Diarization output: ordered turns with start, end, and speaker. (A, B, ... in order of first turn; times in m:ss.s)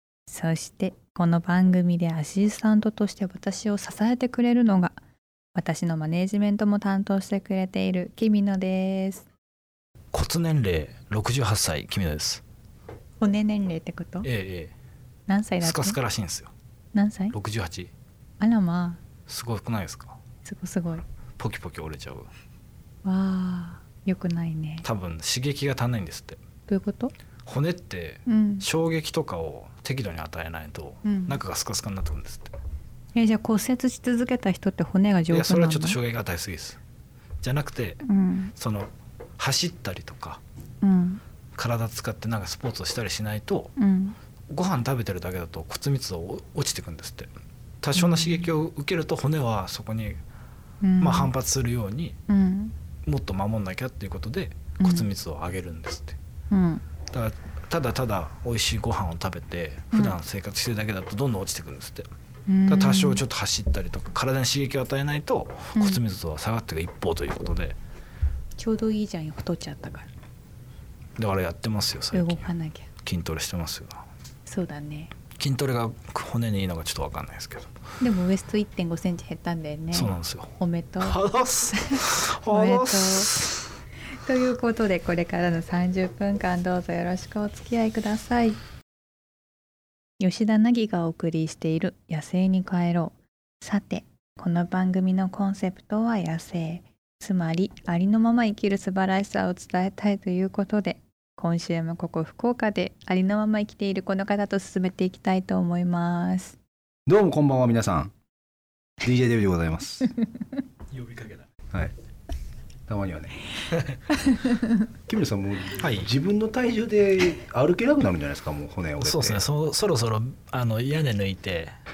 0:00.3-0:05.0 A
0:05.5-0:09.3 A
0:10.1-0:12.4 B
0:13.2-0:14.3 A
0:14.2-0:14.7 B
0:15.3-0:16.0 A
0:15.6-0:16.5 B
0:16.9-0:17.3 A
0:17.3-0:17.9 B
0:18.4-0:19.0 A
0:19.3-0:20.2 B
0:20.4-0:21.0 A
0:21.4-0:22.3 B
0:23.0-0:24.8 A
0:24.8-0:26.4 B
0:26.7-0:27.1 A
0:27.4-0:32.6 B
0:28.2-0:28.6 A
0:31.0-0:31.4 A
0:33.1-0:36.0 A
0:35.3-0:36.8 B
0:37.4-0:38.0 B
0:38.0-0:38.5 A
0:38.5-0:40.4 B
0:40.8-0:41.2 A
0:41.6-0:43.7 B
0:43.8-0:44.2 A
0:44.5-0:47.3 B
0:47.8-0:50.2 B
0:48.0-0:48.5 A
0:50.8-0:51.3 A
0:51.0-0:52.2 B
0:52.3-0:52.7 A
0:53.0-0:56.2 B
0:54.8-0:55.1 A
0:56.5-0:56.8 A
0:57.1-1:02.1 B
1:02.5-1:03.2 A
1:02.7-1:07.8 B
1:05.7-1:06.0 A
1:08.6-1:10.1 A
1:11.2-1:12.5 B
1:12.1-1:12.9 A
1:13.0-1:14.0 B
1:14.4-1:15.1 A
1:15.4-1:17.7 B
1:18.0-1:21.2 A
1:19.9-1:23.7 B
1:21.7-1:23.3 A
1:24.1-1:28.6 A
1:30.2-1:46.6 A
1:47.0-1:48.1 C
1:49.0-1:50.1 C
1:50.9-1:51.4 B
1:52.9-1:53.4 C
1:53.7-1:54.0 B
1:54.3-1:54.7 A
1:55.1-1:59.4 C
1:55.8-1:56.1 B
1:59.0-2:01.7 B